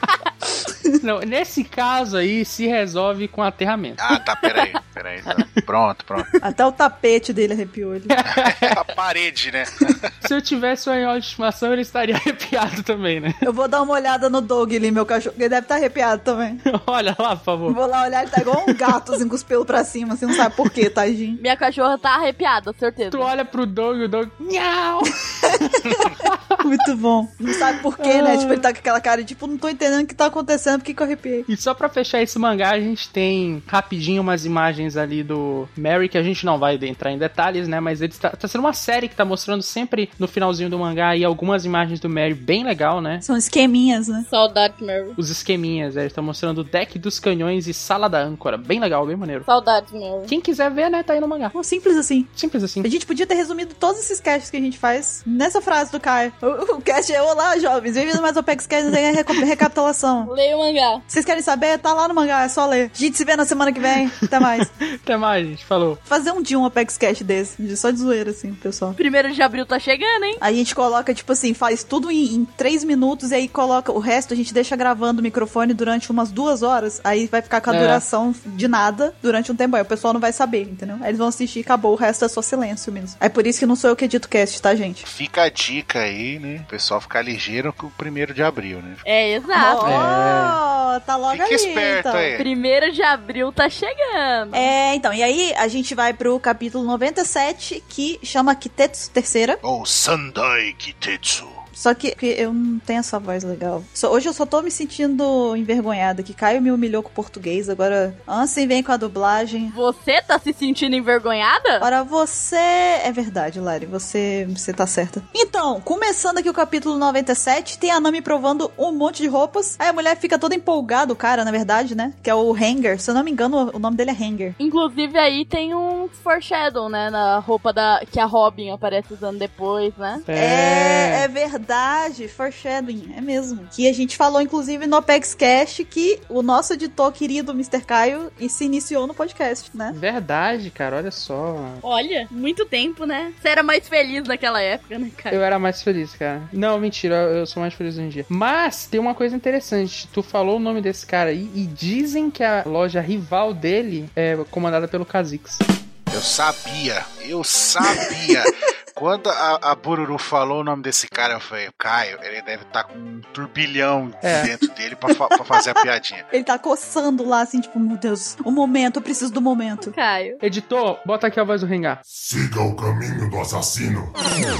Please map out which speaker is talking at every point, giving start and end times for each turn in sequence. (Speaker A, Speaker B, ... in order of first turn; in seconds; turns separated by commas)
Speaker A: 1.0-4.0, Speaker B: 4.0-6.3, Speaker C: 4.4-4.7, Speaker D: 6.4-8.2, Speaker A: 8.1-8.8, Speaker B: 8.3-10.1, Speaker A: 10.2-13.4, Speaker D: 13.4-16.6, Speaker A: 16.6-17.8, Speaker D: 17.7-21.4, Speaker A: 18.6-19.0, Speaker C: 21.4-23.3, Speaker A: 23.1-26.6, Speaker D: 26.6-31.5, Speaker A: 28.0-28.6, Speaker A: 31.5-43.2, Speaker D: 43.2-44.3, Speaker C: 44.3-45.2, Speaker A: 45.2-49.5, Speaker C: 49.5-50.3, Speaker A: 50.3-51.5, Speaker D: 51.5-52.3, Speaker A: 52.4-52.9, Speaker D: 52.8-60.3, Speaker C: 60.2-61.0, Speaker D: 61.1-64.7, Speaker A: 64.4-66.0, Speaker D: 66.0-69.0, Speaker C: 69.0-70.4, Speaker D: 70.4-85.0, Speaker A: 77.7-78.0, Speaker B: 85.0-89.0, Speaker C: 89.0-90.0, Speaker D: 89.5-92.3, Speaker A: 89.8-90.6, Speaker B: 91.3-92.5, Speaker C: 92.3-94.7, Speaker D: 94.5-99.6, Speaker B: 99.6-101.6, Speaker D: 101.7-109.7, Speaker C: 109.7-111.9, Speaker D: 111.8-124.5, Speaker C: 124.6-130.2, Speaker A: 130.2-131.3, Speaker D: 130.3-140.0, Speaker A: 139.9-141.8, Speaker C: 141.8-145.4, Speaker A: 145.3-155.6, Speaker B: 156.1-166.3, Speaker A: 164.2-164.5, Speaker D: 166.3-169.9, Speaker C: 169.8-170.4, Speaker A: 170.4-172.0, Speaker E: 172.1-174.3